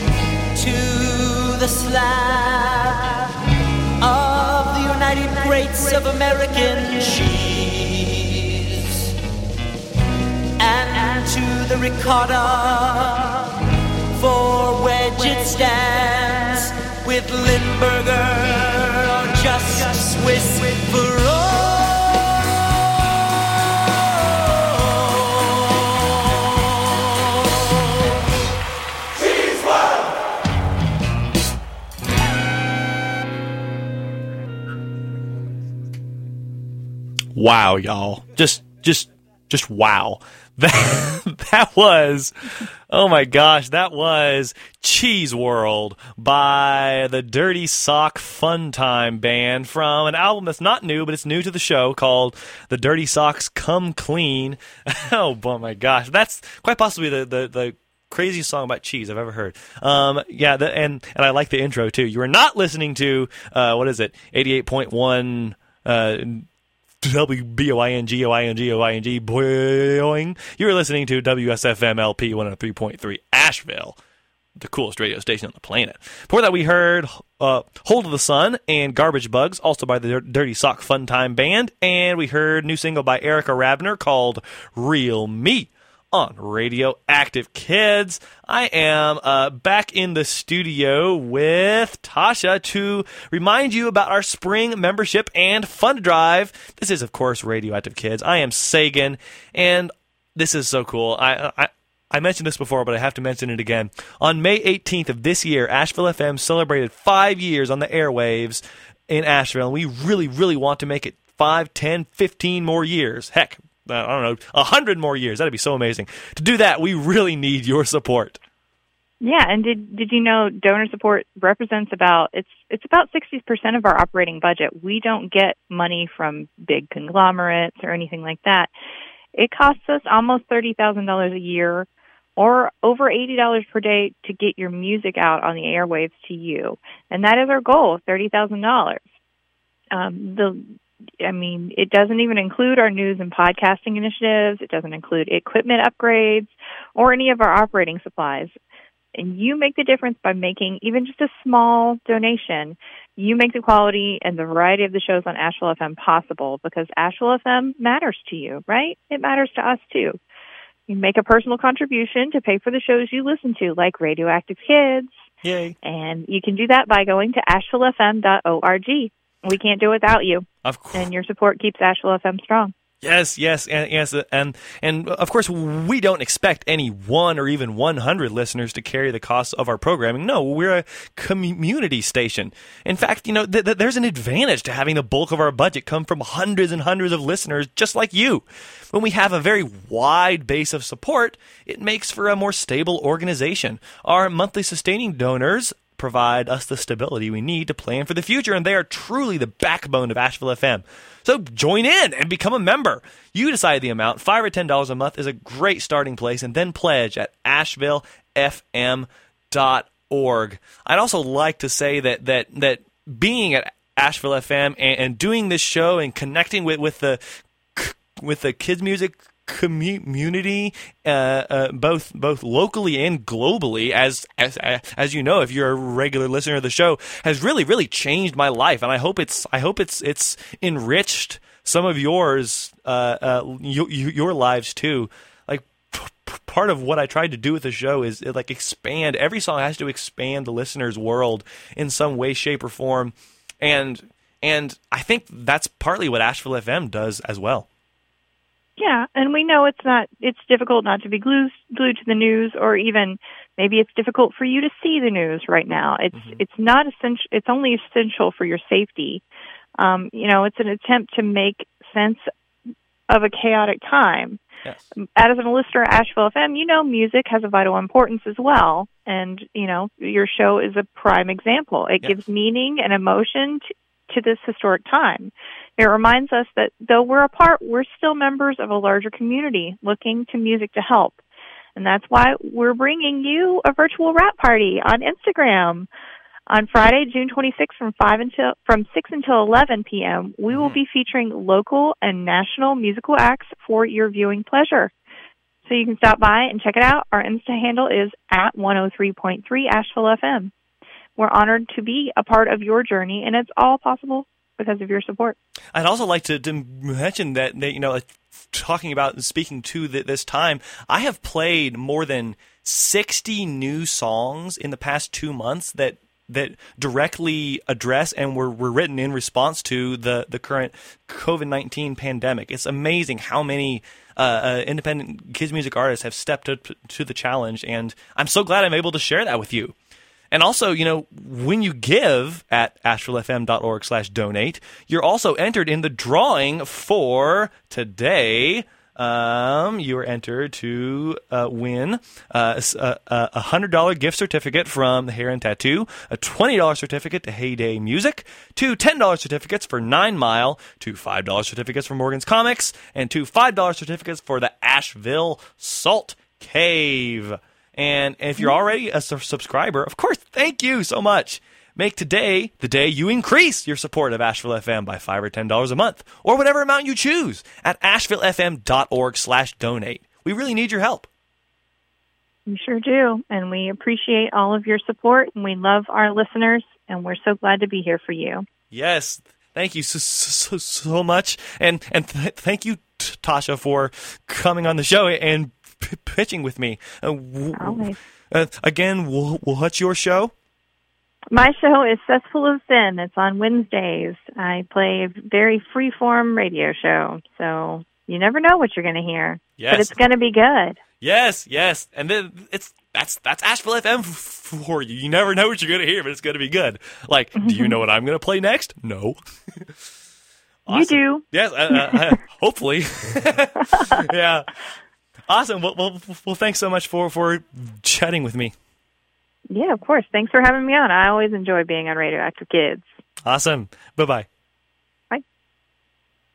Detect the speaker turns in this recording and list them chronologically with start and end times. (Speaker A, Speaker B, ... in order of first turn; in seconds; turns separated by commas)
Speaker A: 0.6-2.9, Speaker A: 4.0-8.7, Speaker A: 10.6-13.4, Speaker A: 14.2-21.8, Speaker B: 37.4-42.3, Speaker B: 42.9-66.5, Speaker B: 67.0-74.0, Speaker B: 74.6-118.4, Speaker C: 119.2-128.7, Speaker C: 129.3-139.1, Speaker C: 139.9-148.5, Speaker C: 149.2-160.2, Speaker C: 160.9-165.2, Speaker B: 165.4-165.8, Speaker C: 165.8-172.7, Speaker B: 170.6-171.1, Speaker B: 173.0-217.2, Speaker B: 217.8-247.7, Speaker C: 248.8-259.2, Speaker B: 256.1-256.4, Speaker C: 259.8-262.3, Speaker C: 263.1-264.4, Speaker C: 265.2-281.2, Speaker C: 281.8-285.9, Speaker C: 286.5-294.9, Speaker B: 290.5-290.8, Speaker C: 295.7-300.5, Speaker C: 301.2-305.4, Speaker B: 305.7-329.7, Speaker B: 330.3-371.1, Speaker C: 372.5-378.4, Speaker B: 378.7-390.3, Speaker C: 387.6-388.0, Speaker C: 391.3-400.8, Speaker B: 399.6-400.0, Speaker B: 401.0-409.2, Speaker C: 407.4-407.8, Speaker B: 410.7-414.5, Speaker C: 410.7-411.9, Speaker B: 415.3-418.5, Speaker C: 419.5-422.9, Speaker B: 423.2-424.3